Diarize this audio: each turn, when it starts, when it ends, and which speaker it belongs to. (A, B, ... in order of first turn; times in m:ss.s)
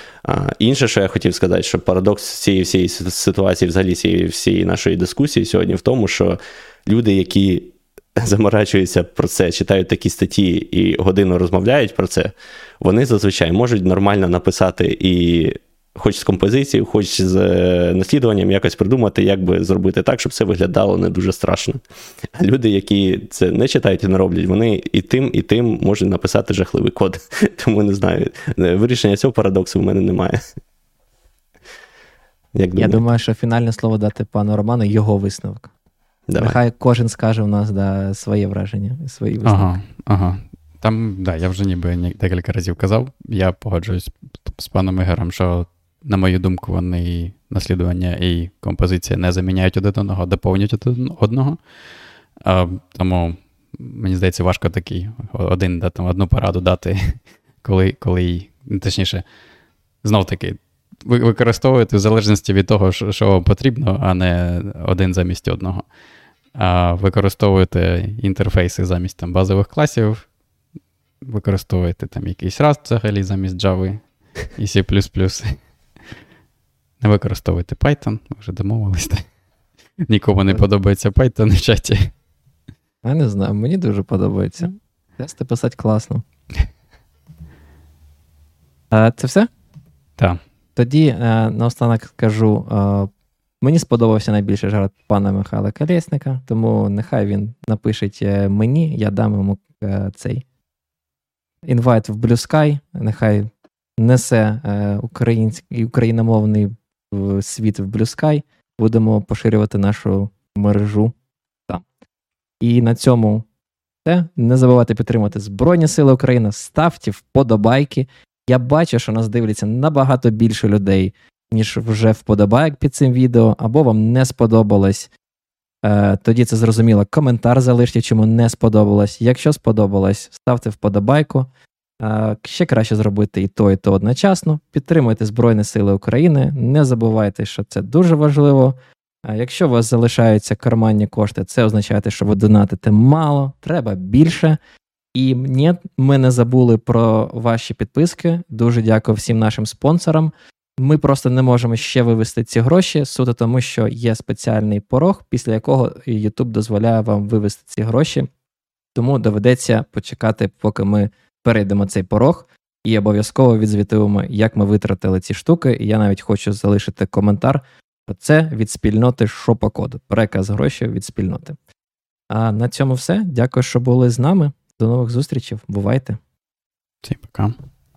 0:00.2-0:21.8 A
0:22.3-0:30.4 A
0:32.6-0:33.0 A
0:32.8-0:35.7 B
0:36.3-0:36.6 A
0:36.4-0:39.8 B
0:39.4-0:51.6 C
0:52.4-0:59.2 C
1:00.0-1:05.8 C
1:06.6-1:10.3 C
1:11.2-1:15.6 C
1:17.0-1:19.2 C
1:20.0-1:22.1 C
1:23.0-1:26.2 B
1:28.9-1:29.5 B
1:30.8-1:33.1 B
1:33.6-1:40.4 B
1:41.6-1:51.1 B
1:52.6-1:53.4 B
1:54.0-2:05.1 B
2:05.8-2:11.5 B
2:12.0-2:24.6 B
2:25.1-2:38.3 B
2:38.9-2:51.6 B
2:52.3-2:56.2 B
2:57.0-2:57.6 C